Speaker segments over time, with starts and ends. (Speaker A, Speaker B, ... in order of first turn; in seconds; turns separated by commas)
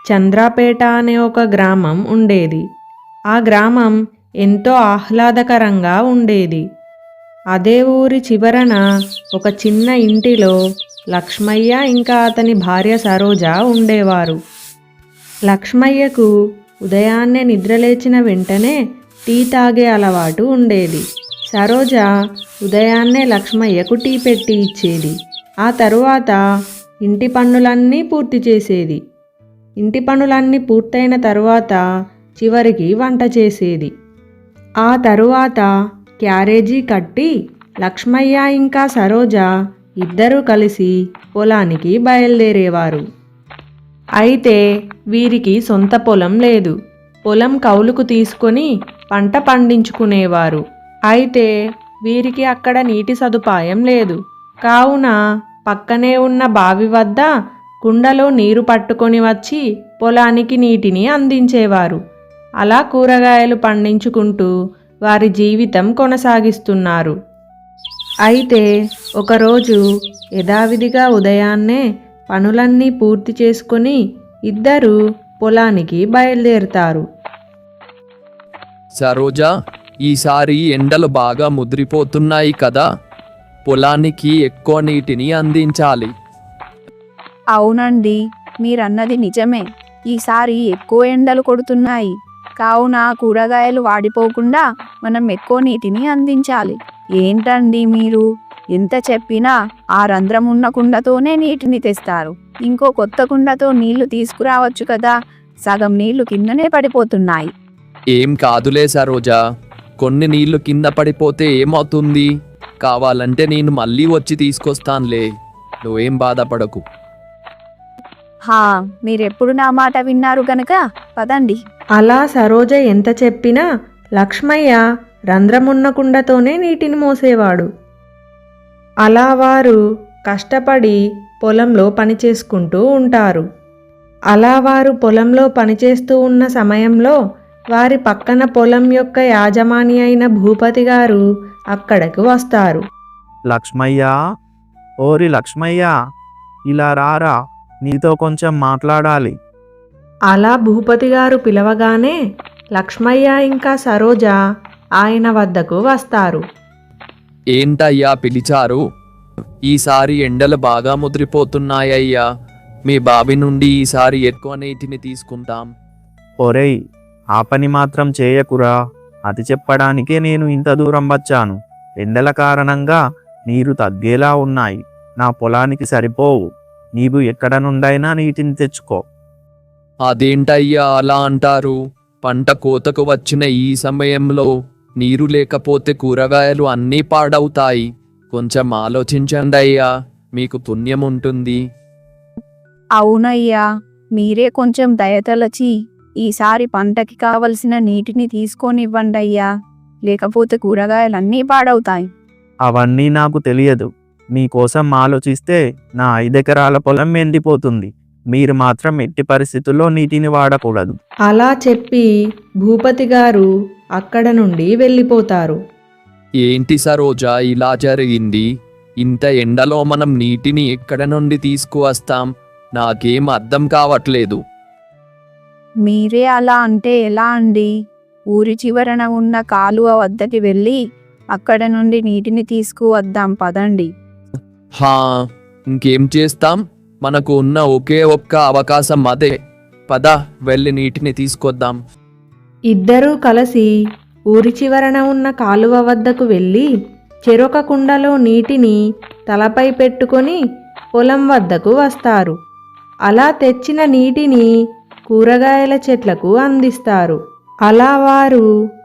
Speaker A: 0.1-2.6, Speaker A: 3.3-3.9, Speaker A: 4.4-6.6, Speaker A: 7.5-8.8, Speaker A: 9.3-10.5, Speaker A: 11.1-14.3, Speaker A: 15.5-16.3, Speaker A: 16.9-18.8, Speaker A: 19.3-22.1, Speaker A: 22.6-26.4, Speaker A: 27.0-29.0, Speaker A: 29.8-31.8, Speaker A: 32.4-33.9, Speaker A: 34.8-35.6, Speaker A: 36.2-37.3, Speaker A: 37.8-39.5, Speaker A: 40.0-43.0, Speaker A: 44.2-44.6, Speaker A: 45.1-46.7, Speaker A: 47.3-50.6, Speaker A: 51.1-51.5, Speaker A: 52.0-55.1, Speaker A: 55.7-57.3, Speaker A: 57.8-62.0, Speaker A: 62.6-64.5, Speaker A: 65.1-67.1, Speaker A: 68.3-68.6, Speaker A: 69.2-69.8, Speaker A: 70.4-74.0, Speaker A: 74.5-77.0, Speaker B: 79.0-79.5, Speaker B: 80.0-82.8, Speaker B: 83.7-86.1, Speaker C: 87.5-105.1, Speaker C: 105.7-107.5, Speaker B: 108.1-109.3, Speaker B: 110.0-112.3, Speaker B: 112.8-115.3, Speaker B: 115.8-116.8, Speaker C: 118.5-121.6, Speaker A: 122.0-123.6, Speaker A: 124.2-124.8, Speaker A: 125.3-127.7, Speaker A: 129.0-133.4, Speaker A: 134.3-137.1, Speaker A: 137.7-141.2, Speaker A: 141.7-142.8, Speaker D: 143.5-144.1, Speaker D: 145.0-145.9, Speaker D: 146.7-149.3, Speaker A: 150.3-152.2, Speaker A: 152.8-154.3, Speaker A: 155.0-156.4, Speaker B: 157.5-158.8, Speaker B: 159.7-162.2, Speaker B: 162.9-165.7, Speaker D: 166.4-166.7, Speaker D: 167.3-168.7, Speaker D: 169.3-176.4, Speaker D: 176.9-179.0, Speaker B: 180.1-184.5, Speaker B: 185.0-191.6, Speaker C: 193.0-193.6, Speaker C: 194.2-199.5, Speaker C: 200.1-202.1, Speaker D: 202.6-211.0, Speaker A: 211.3-212.1, Speaker A: 212.6-215.6, Speaker B: 216.4-218.4, Speaker B: 219.0-224.4, Speaker C: 225.8-227.7, Speaker C: 228.3-230.8, Speaker C: 231.3-233.9, Speaker B: 235.7-239.3, Speaker B: 239.9-241.8, Speaker A: 242.7-243.7, Speaker A: 244.3-246.7, Speaker A: 247.3-248.8, Speaker A: 249.3-250.4, Speaker A: 250.9-252.3, Speaker A: 253.1-254.4, Speaker A: 255.1-258.4